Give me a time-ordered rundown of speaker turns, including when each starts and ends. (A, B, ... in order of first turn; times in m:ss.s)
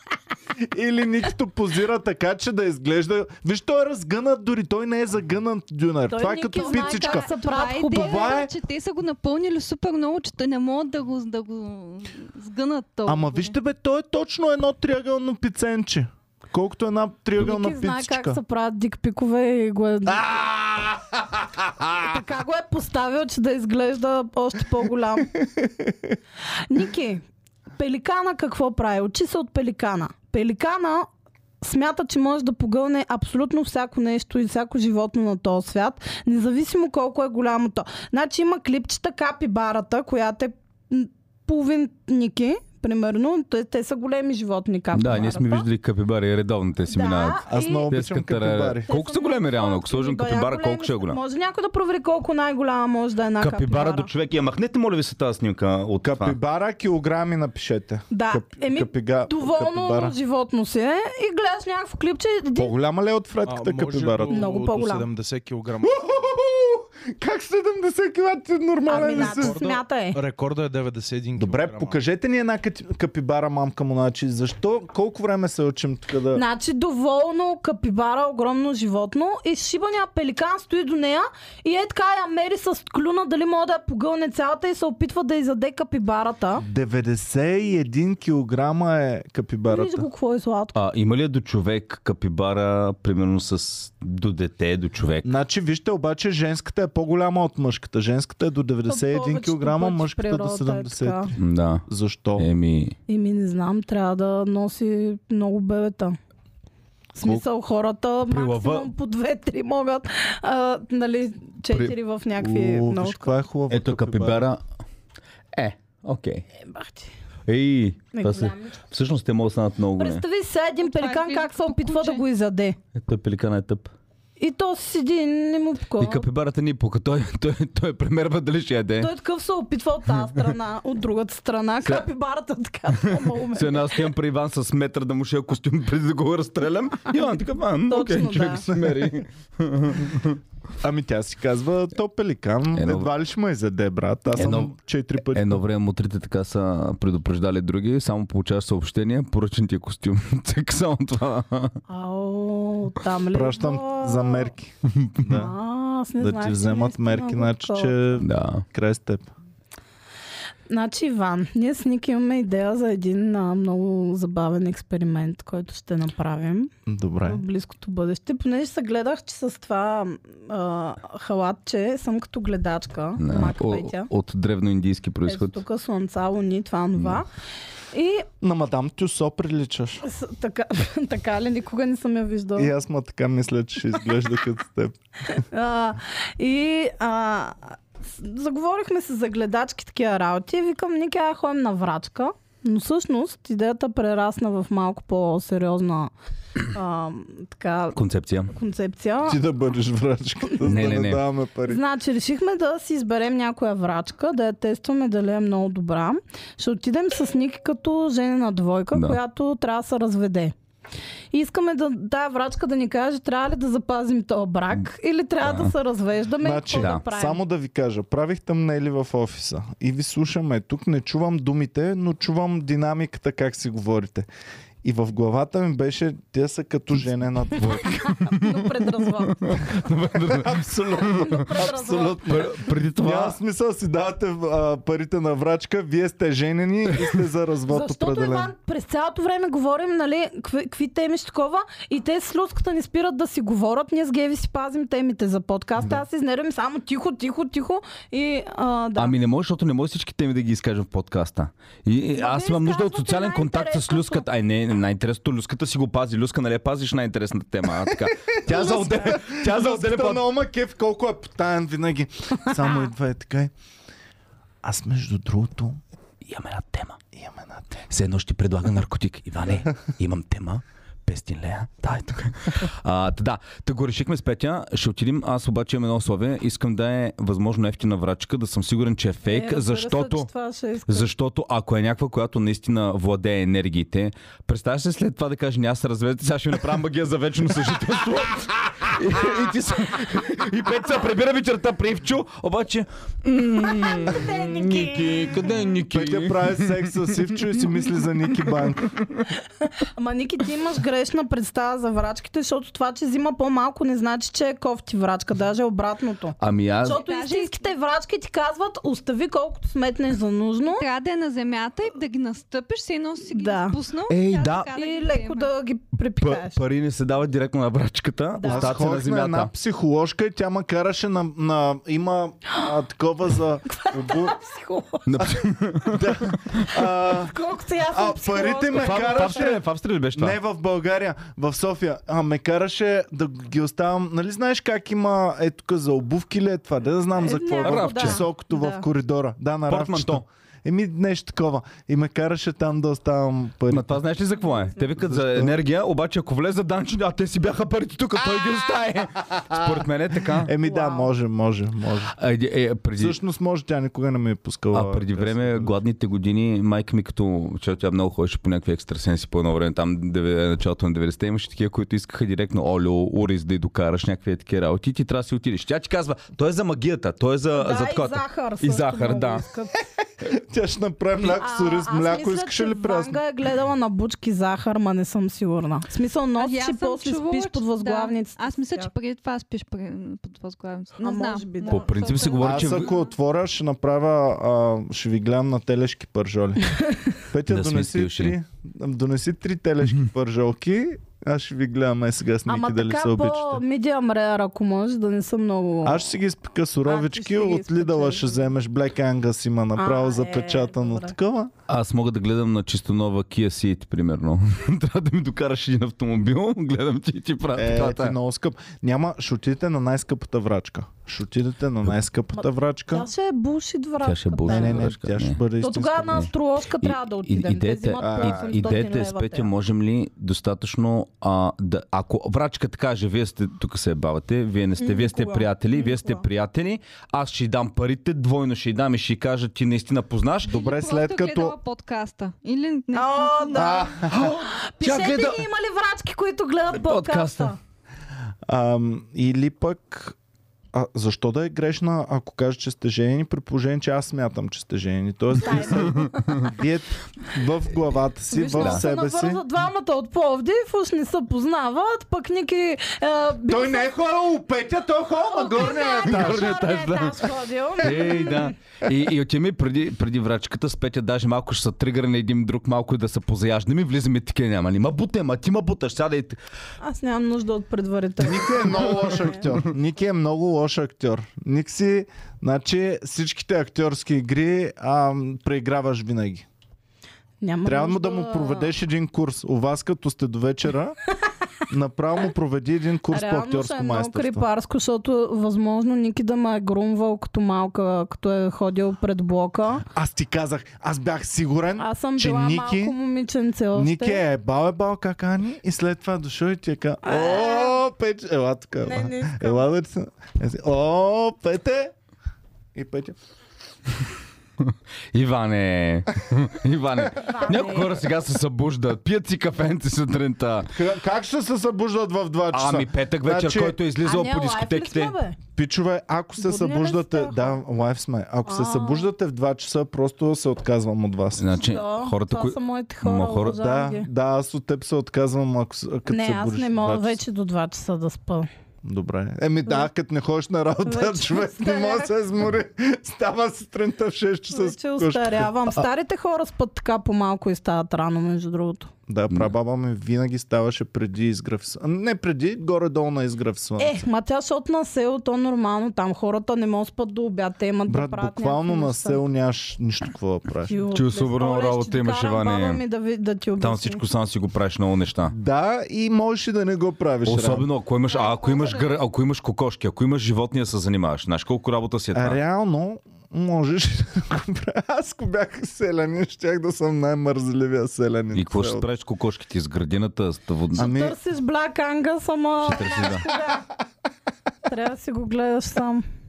0:00.6-0:07.3 A
0:06.1-0:08.4 B
0:06.5-0:13.5 C
0:07.9-0:08.5 A
0:13.0-0:18.4 A
0:17.4-0:20.3 B
0:20.1-0:22.0 A
0:22.0-0:25.3 B
0:25.4-0:26.1 A
0:26.7-0:27.2 B
0:27.8-0:31.1 B
0:31.6-0:45.7 B
0:44.9-0:51.2 D
0:46.9-0:47.9 B
0:47.5-0:48.9 A
0:48.8-0:54.1 B
0:53.4-0:56.4 D
0:56.0-1:00.2 A
0:58.1-1:02.7 B
1:02.6-1:04.4 A
1:03.4-1:06.0 E
1:04.3-1:05.1 B
1:05.8-1:09.6 A
1:08.8-1:10.2 B
1:08.9-1:12.0 E
1:11.4-1:16.4 A
1:16.3-1:26.6 B
1:26.6-1:30.1 A
1:29.7-1:30.8 B
1:30.7-1:35.3 D
1:35.2-1:42.5 A
1:38.9-1:41.3 B
1:41.4-1:41.8 D
1:42.4-1:43.0 D
1:43.1-1:46.2 B
1:47.2-1:53.3 B
1:48.3-1:48.9 D
1:52.4-1:54.5 A
1:53.7-1:54.6 D
1:55.5-1:56.4 D
1:56.6-1:57.1 B
1:57.5-2:00.2 D
1:58.1-1:58.8 B
2:00.0-2:02.8 B
2:00.8-2:02.2 C
2:02.9-2:03.9 D
2:04.4-2:06.2 B
2:06.0-2:09.1 D
2:09.0-2:14.1 B
2:13.2-2:20.4 D
2:17.8-2:18.7 B
2:18.8-2:19.1 A
2:20.8-2:25.6 A
2:22.7-2:23.1 D
2:24.3-2:24.7 D
2:25.3-2:31.8 D
2:31.9-2:34.5 B
2:33.3-2:35.5 A
2:35.3-2:38.1 B
2:36.2-2:39.3 A
2:38.2-2:38.6 D
2:40.7-2:46.7 B
2:46.8-2:47.4 A
2:47.2-2:54.1 B
2:53.2-2:55.6 D
2:55.2-2:57.3 B
2:57.0-2:57.2 D
2:57.9-2:58.3 B
2:58.4-3:00.0 A
3:00.0-3:02.7 B
3:02.6-3:05.4 A
3:05.3-3:16.1 B
3:16.7-3:18.0 B
3:17.9-3:18.5 D
3:18.5-3:19.4 B
3:19.2-3:21.8 A
3:20.4-3:21.1 B
3:20.6-3:21.2 D
3:21.6-3:30.5 B
3:28.9-3:29.2 D
3:31.3-3:37.4 B
3:35.4-3:35.7 D
3:36.4-3:44.3 A
3:44.8-3:47.9 A
3:47.5-3:53.4 D
3:47.8-3:49.6 B
3:49.7-3:58.5 A
3:51.0-3:52.4 B
3:57.7-4:09.2 B
4:05.8-4:06.0 A
4:09.0-4:20.2 D
4:12.2-4:14.2 B
4:17.8-4:23.5 A
4:18.5-4:19.2 B
4:22.5-4:22.8 B
4:24.6-4:25.8 A
4:26.2-4:27.0 D
4:27.1-4:27.8 A
4:27.9-4:40.3 D
4:39.2-4:41.1 B
4:40.9-4:57.3 D
4:53.6-4:55.5 B
4:55.9-4:58.9 A
4:59.7-5:10.8 B
5:06.4-5:07.0 D
5:06.8-5:07.7 C
5:10.7-5:15.5 C
5:13.3-5:13.8 B
5:14.1-5:14.7 D
5:14.7-5:16.6 B
5:16.2-5:19.5 D
5:18.3-5:18.8 B
5:18.4-5:24.4 A
5:23.7-5:25.1 B
5:25.0-5:26.6 D
5:25.8-5:27.4 A
5:26.7-5:29.5 B
5:27.9-5:44.0 A
5:28.8-5:30.4 D
5:37.2-5:38.8 B
5:37.6-5:38.2 D
5:39.7-5:40.2 D
5:43.7-5:50.5 D
5:44.4-5:44.9 B
5:45.0-5:45.6 A
5:50.3-5:52.1 A
5:50.6-5:51.1 B
5:52.1-5:53.2 D
5:53.0-5:55.8 A
5:54.7-6:09.4 D
6:07.6-6:09.8 B
6:10.2-6:13.2 A
6:11.2-6:18.9 B
6:16.4-6:23.1 C
6:21.0-6:22.2 B
6:21.6-6:22.9 D
6:22.4-6:33.6 A
6:27.5-6:28.3 D
6:32.4-6:36.1 B
6:35.8-6:41.5 A
6:36.8-6:38.5 B
6:39.8-6:41.1 B
6:41.7-6:48.2 D
6:47.5-6:53.1 A
6:52.9-6:54.9 B
6:54.0-6:55.4 D
6:54.5-6:56.3 A
6:55.6-6:59.5 B
6:56.8-7:10.6 D
6:58.0-6:58.8 A
7:04.8-7:06.2 B
7:10.4-7:11.6 A
7:10.4-7:13.9 C
7:12.9-7:17.6 B
7:13.5-7:14.4 A
7:14.0-7:15.4 D
7:16.7-7:17.5 D
7:18.5-7:20.2 A
7:20.7-7:29.4 A
7:25.4-7:26.6 B
7:28.3-7:33.9 B
7:28.6-7:28.8 D
7:33.5-7:36.6 A
7:35.3-7:38.5 B
7:36.0-7:46.4 D
7:46.8-7:49.5 B
7:48.2-7:56.4 A
7:57.4-7:58.7 B
7:57.6-8:01.0 A
8:01.7-8:04.4 A
8:03.1-8:09.8 B
8:09.9-8:13.0 A
8:11.8-8:14.2 B
8:13.7-8:21.9 A
8:17.0-8:17.8 B
8:18.8-8:19.6 B
8:22.7-8:23.2 A
8:24.6-8:30.7 D
8:27.2-8:27.9 B
8:30.7-8:33.8 A
8:32.5-8:35.1 D
8:34.0-8:35.4 B
8:35.6-8:41.6 A
8:36.4-8:37.6 B
8:38.5-8:39.1 B
8:41.4-8:43.6 D
8:41.6-8:44.1 B
8:43.5-8:47.2 A
8:46.1-8:48.5 B
8:48.8-8:55.8 A
8:50.8-8:52.1 B
8:54.5-8:58.9 B
8:59.1-9:04.0 A
9:03.8-9:09.2 B
9:07.9-9:10.8 A
9:10.7-9:14.0 B
9:10.9-9:12.8 D
9:13.6-9:15.3 D
9:15.3-9:17.7 A
9:17.2-9:22.4 D
9:18.1-9:19.0 C
9:22.1-9:28.9 A
9:28.3-9:30.9 D
9:30.7-9:31.2 A
9:30.8-9:33.6 B
9:32.6-9:33.3 D
9:34.7-9:36.0 B